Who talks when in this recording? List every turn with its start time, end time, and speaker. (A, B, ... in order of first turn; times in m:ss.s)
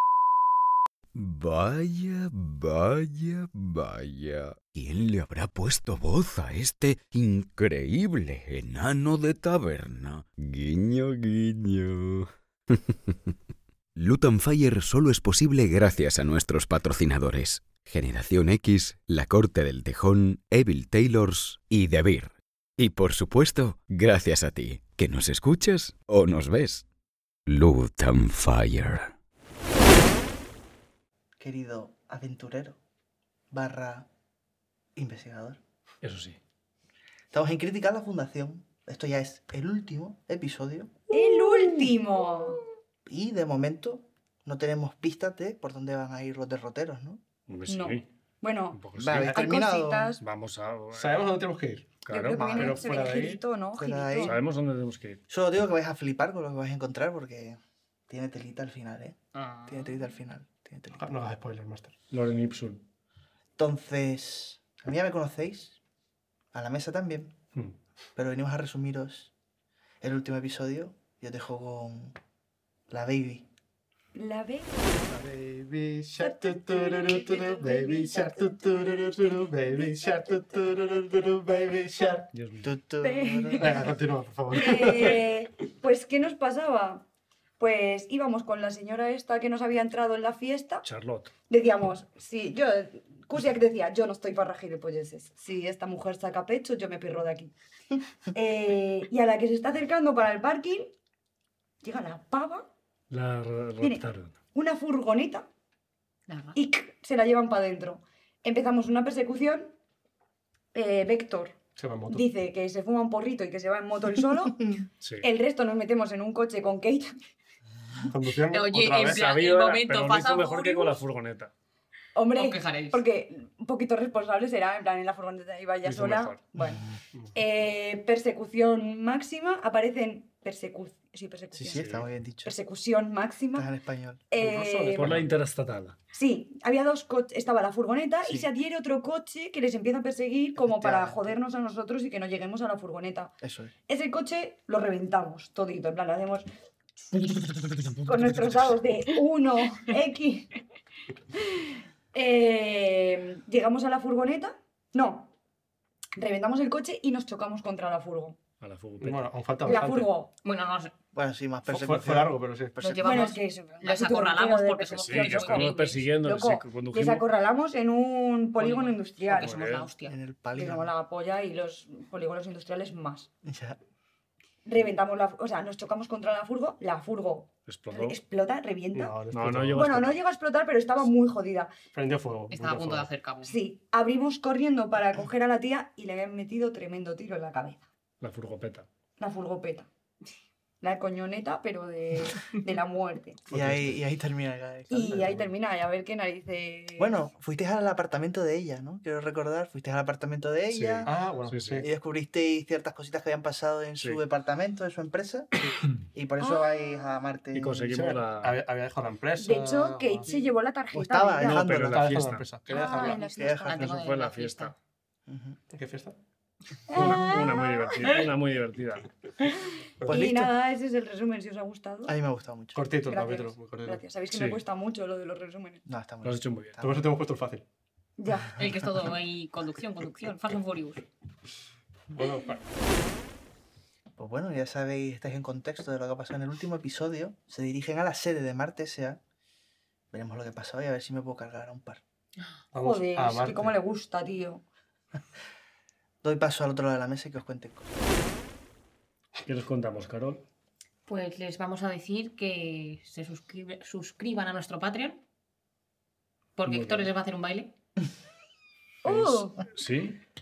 0:01.1-0:13.3 A
0:14.0-0:26.8 A
0:27.4-0:29.1 A
0:31.4-0:32.8 B
0:33.5-0:34.1 B
0:34.9-0:35.6 B
0:36.0-0:36.4 C
0:37.3-0:41.0 B
0:41.1-0:42.6 D
0:43.0-0:47.2 B
0:47.5-0:48.1 C
0:47.7-0:50.2 D
0:48.7-0:49.4 C
0:48.9-0:50.2 B
0:50.2-0:51.3 C
0:50.9-0:52.0 E
0:52.0-0:53.2 C
0:52.1-0:54.3 D
0:52.3-0:52.9 B
0:52.6-0:53.4 E
0:53.8-0:54.4 B
0:54.2-0:55.2 C
0:55.3-1:01.1 B
0:59.3-1:00.0 F
1:00.9-1:01.9 E
1:02.1-1:02.8 C
1:03.6-1:05.8 B
1:06.5-1:07.4 B
1:08.2-1:09.3 B
1:10.0-1:12.2 B
1:12.9-1:13.5 B
1:14.1-1:15.0 D
1:15.1-1:22.3 E
1:16.2-1:20.8 D
1:22.3-1:22.7 C
1:22.6-1:23.8 B
1:23.0-1:23.8 D
1:23.6-1:25.3 E
1:24.5-1:27.0 D
1:27.6-1:30.8 D
1:30.8-1:31.3 C
1:31.5-1:37.5 D
1:38.3-1:40.9 D
1:41.8-1:42.7 D
1:43.1-1:44.3 C
1:43.8-1:45.5 D
1:46.3-1:46.6 F
1:46.5-1:49.7 D
1:50.7-1:54.7 D
1:51.8-1:52.3 E
1:54.6-1:54.8 B
1:55.0-1:55.3 C
1:55.2-1:57.2 D
1:58.0-1:59.2 E
1:58.5-2:01.0 F
1:59.0-2:01.5 C
2:02.1-2:06.8 D
2:02.3-2:03.0 F
2:05.8-2:06.4 C
2:07.3-2:11.8 D
2:11.6-2:12.1 C
2:11.6-2:12.5 B
2:12.4-2:13.7 D
2:13.5-2:14.2 B
2:14.3-2:15.2 D
2:14.4-2:15.3 E
2:14.9-2:16.0 C
2:16.1-2:23.3 D
2:18.2-2:18.5 B
2:20.6-2:21.4 B
2:23.4-2:23.7 B
2:23.9-2:26.5 D
2:28.0-2:30.5 D
2:31.3-2:35.3 D
2:36.2-2:38.4 D
2:38.6-2:39.3 C
2:39.0-2:40.1 E
2:39.6-2:40.3 D
2:40.4-2:40.9 F
2:41.1-2:43.3 B
2:41.7-2:42.8 E
2:42.8-2:46.1 F
2:43.0-2:49.6 D
2:44.9-2:47.3 C
2:48.6-2:50.1 F
2:49.3-2:49.9 C
2:50.0-2:50.9 B
2:50.5-2:53.3 D
2:53.4-2:53.8 B
2:54.6-2:59.2 D
2:57.7-2:58.2 C
2:58.9-3:00.0 E
2:59.3-3:00.2 C
2:59.7-3:01.7 D
3:01.9-3:03.1 E
3:02.5-3:03.6 F
3:03.4-3:07.8 D
3:08.2-3:08.9 C
3:09.2-3:09.9 D
3:10.8-3:13.4 D
3:13.5-3:13.9 C
3:13.5-3:15.5 B
3:14.9-3:17.2 D
3:17.0-3:21.1 B
3:20.7-3:21.8 C
3:21.0-3:21.9 E
3:21.8-3:27.9 B
3:26.4-3:26.7 D
3:27.5-3:28.6 C
3:27.8-3:30.5 E
3:29.4-3:31.6 D
3:30.9-3:32.2 B
3:31.4-3:32.5 C
3:31.7-3:33.3 E
3:32.7-3:33.8 D
3:32.7-3:34.7 F
3:33.3-3:33.8 B
3:33.6-3:34.7 C
3:35.3-3:35.6 B
3:35.7-3:36.2 E
3:36.9-3:38.1 D
3:36.9-3:39.1 C
3:40.0-3:40.2 E
3:40.0-3:40.5 B
3:40.1-3:42.2 D
3:42.1-3:42.9 B
3:42.7-3:44.0 E
3:43.0-3:45.8 D
3:44.3-3:44.6 C
3:45.8-3:47.0 B
3:46.2-3:46.8 C
3:46.8-3:47.6 E
3:48.2-3:48.6 D
3:48.6-3:51.1 F
3:52.1-3:52.6 E
3:54.2-3:59.2 B
4:00.1-4:02.0 B
4:02.7-4:03.8 E
4:02.7-4:04.6 D
4:06.2-4:07.9 B
4:09.4-4:10.4 C
4:11.0-4:15.2 F
4:16.6-4:17.7 F
4:16.6-4:17.1 C
4:19.0-4:19.6 D
4:19.1-4:19.6 B
4:19.7-4:20.2 C